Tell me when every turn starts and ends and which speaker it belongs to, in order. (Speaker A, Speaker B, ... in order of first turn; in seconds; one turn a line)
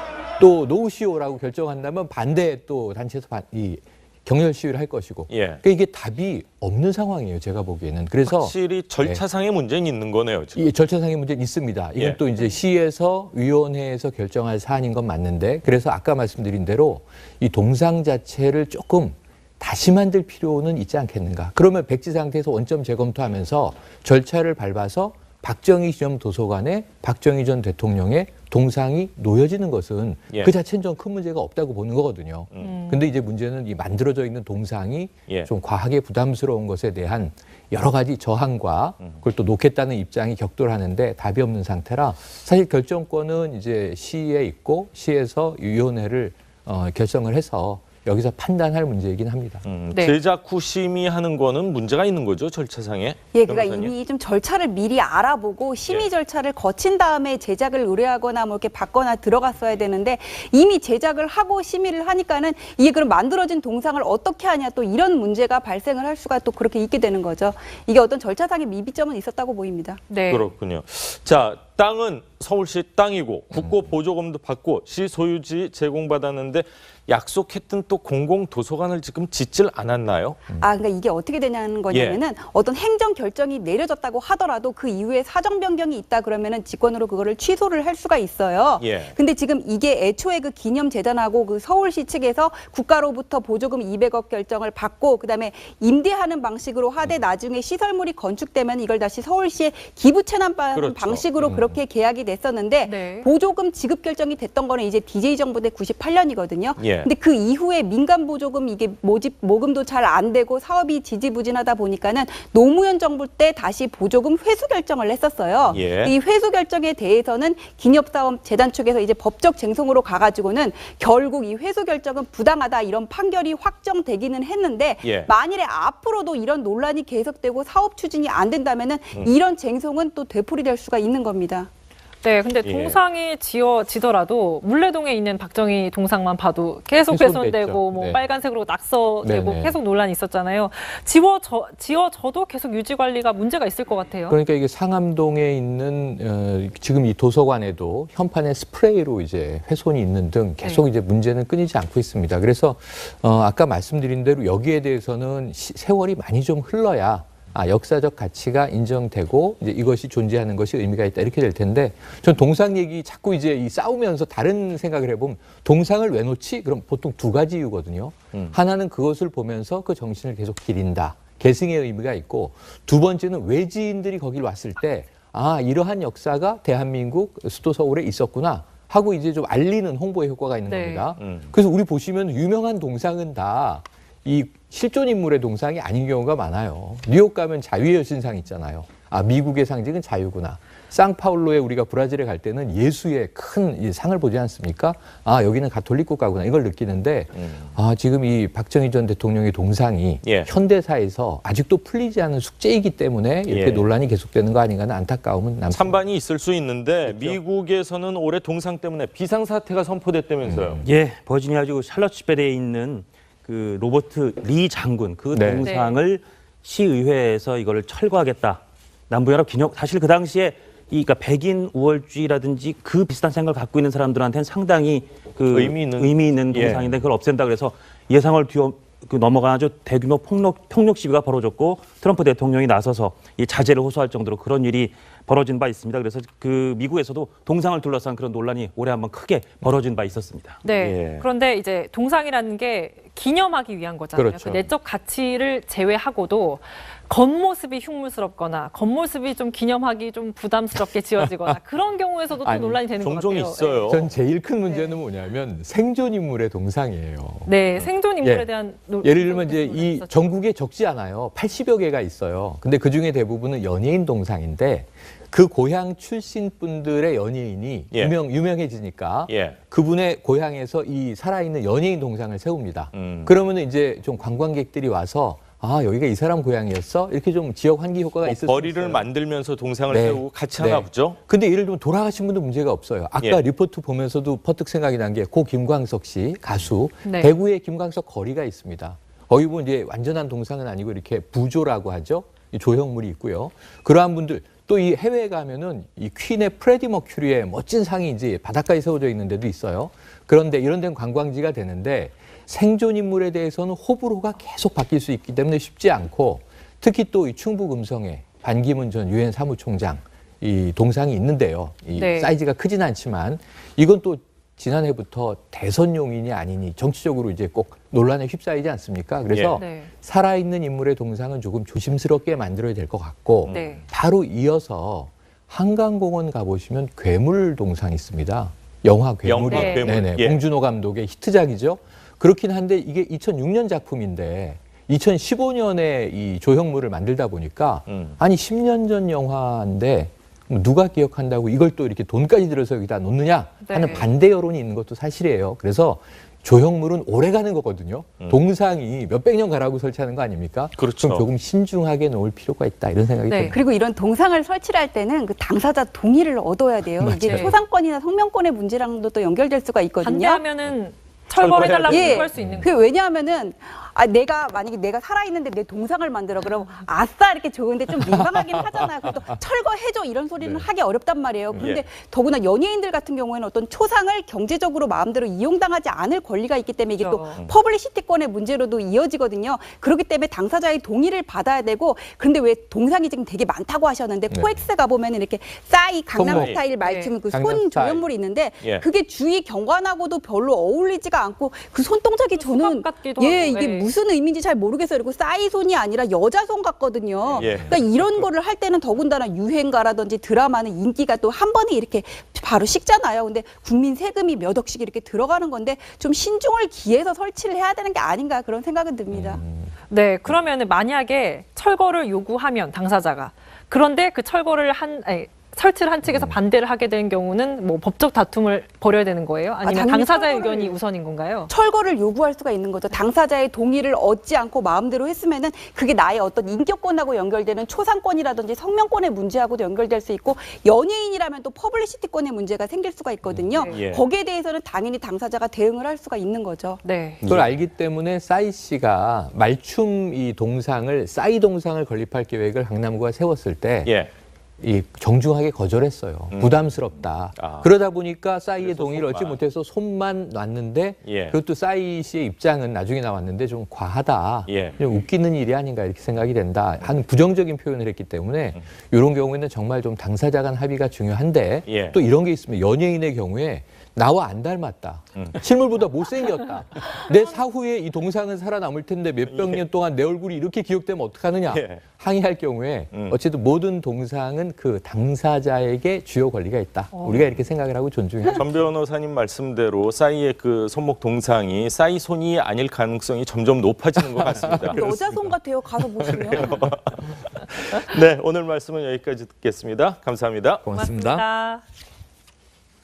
Speaker A: 0.4-9.2
Speaker B: 5.3-5.6
Speaker B: 8.2-10.6
Speaker A: 10.6-49.6
Speaker C: 32.6-33.0
Speaker B: 49.6-53.9
Speaker D: 53.3-70.0
Speaker B: 55.8-56.1
Speaker C: 70.1-70.5
Speaker B: 70.3-80.4
Speaker D: 80.5-131.7
Speaker B: 81.9-82.2
Speaker B: 88.8-89.2
Speaker B: 100.7-101.6
Speaker C: 102.8-103.3
Speaker B: 106.8-107.1
Speaker B: 115.6-116.2
Speaker B: 125.0-125.3
Speaker C: 132.2-144.4
Speaker B: 132.6-133.0
Speaker A: 137.1-138.2
Speaker A: 139.2-139.8
Speaker A: 144.3-206.0
Speaker C: 180.7-181.1
Speaker B: 181.2-181.5
Speaker B: 197.3-197.7
Speaker B: 200.2-200.5
Speaker B: 203.5-203.8
Speaker B: 205.7-210.8
Speaker A: 207.0-207.4
Speaker A: 210.4-210.9
Speaker E: 210.8-240.7
Speaker A: 215.3-215.6
Speaker C: 215.6-216.0
Speaker B: 225.5-227.0
Speaker C: 240.6-254.0
Speaker B: 240.9-241.2
Speaker A: 244.2-244.7
Speaker B: 252.4-254.0
Speaker A: 253.8-257.6
Speaker C: 254.6-255.0
Speaker C: 257.4-260.4
Speaker A: 258.2-258.5
Speaker A: 259.0-279.1
Speaker B: 269.3-269.6
Speaker B: 272.9-273.3
Speaker B: 278.2-281.2
Speaker A: 279.9-353.6
Speaker C: 287.0-287.3
Speaker C: 311.9-312.3
Speaker B: 319.3-319.6
Speaker C: 319.6-319.9
Speaker C: 323.5-323.9
Speaker B: 329.2-330.4
Speaker C: 329.5-329.9
Speaker B: 337.9-338.2
Speaker C: 343.6-344.1
Speaker B: 350.8-351.2
Speaker C: 353.3-353.6
Speaker D: 353.5-360.4
Speaker A: 357.0-357.5
Speaker C: 360.0-362.7
Speaker B: 361.4-362.6
Speaker D: 361.9-409.4
Speaker A: 362.4-362.7
Speaker B: 371.5-371.9
Speaker C: 377.0-377.4
Speaker A: 384.3-384.6
Speaker A: 386.1-386.6
Speaker B: 386.3-386.6
Speaker C: 386.8-387.1
Speaker A: 387.3-388.1
Speaker C: 392.3-393.9
Speaker A: 397.4-397.7
Speaker B: 397.4-398.2
Speaker A: 409.1-409.7
Speaker C: 409.9-421.5
Speaker A: 416.1-416.4
Speaker D: 419.6-420.8
Speaker D: 421.5-436.8
Speaker C: 433.5-433.8
Speaker B: 433.7-434.0
Speaker C: 436.8-437.2
Speaker B: 437.2-437.5
Speaker A: 437.2-443.9
Speaker B: 443.8-444.1
Speaker A: 444.6-478.4
Speaker B: 446.3-446.8
Speaker B: 447.3-447.7
Speaker B: 448.6-449.4
Speaker B: 451.0-451.4
Speaker B: 454.5-454.8
Speaker B: 461.6-462.0
Speaker B: 469.3-469.6
Speaker B: 471.5-471.8
Speaker B: 477.1-477.4
Speaker B: 478.3-485.3
Speaker A: 484.2-484.8
Speaker D: 484.7-486.6
Speaker B: 486.0-490.6
Speaker A: 490.6-491.2
Speaker C: 490.7-491.6